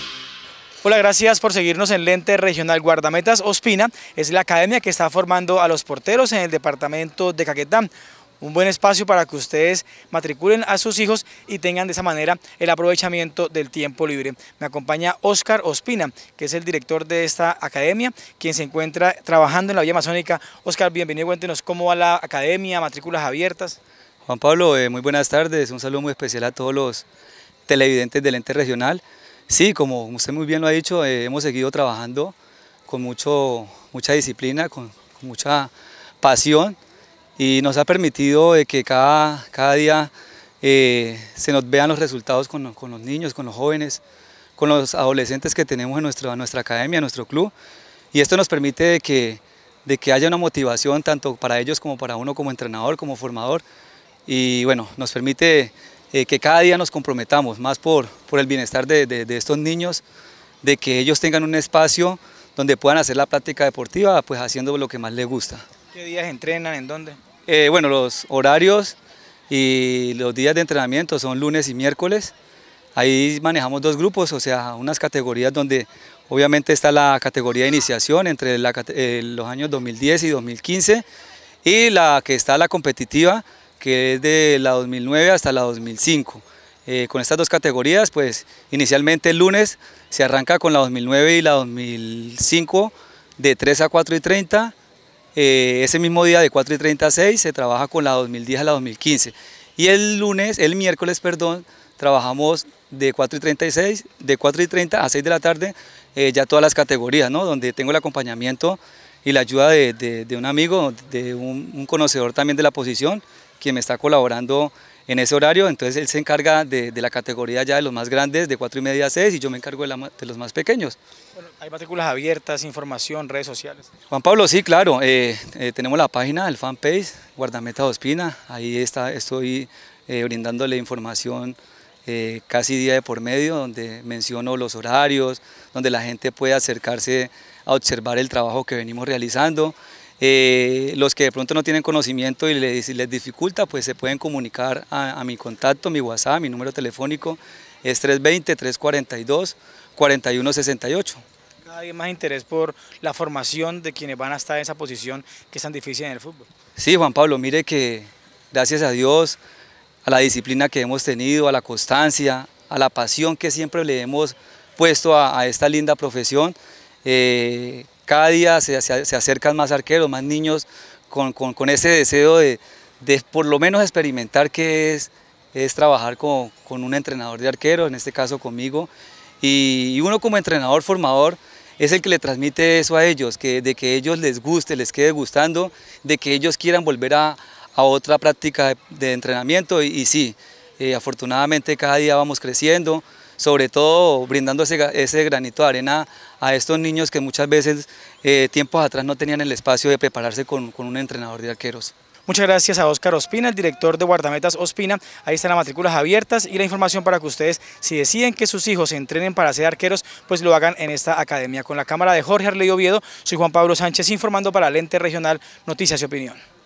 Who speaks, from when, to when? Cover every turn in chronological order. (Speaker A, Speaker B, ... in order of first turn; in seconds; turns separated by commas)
Speaker A: 0.8-23.8, Speaker B: 24.3-27.1, Speaker B: 27.7-32.3, Speaker B: 32.9-35.7, Speaker B: 36.2-36.8, Speaker B: 37.4-40.1, Speaker B: 40.6-44.0, Speaker B: 44.6-47.5, Speaker B: 48.1-53.6, Speaker B: 54.3-60.0, Speaker B: 60.6-65.7, Speaker A: 65.9-67.2, Speaker B: 67.5-69.0, Speaker B: 69.5-72.3, Speaker B: 73.0-81.0, Speaker B: 81.7-94.7, Speaker B: 95.3-121.0, Speaker A: 121.4-123.9, Speaker B: 124.1-151.2, Speaker A: 151.7-156.5, Speaker B: 156.8-159.4, Speaker B: 160.1-178.9, Speaker B: 179.4-201.9, Speaker A: 202.3-216.4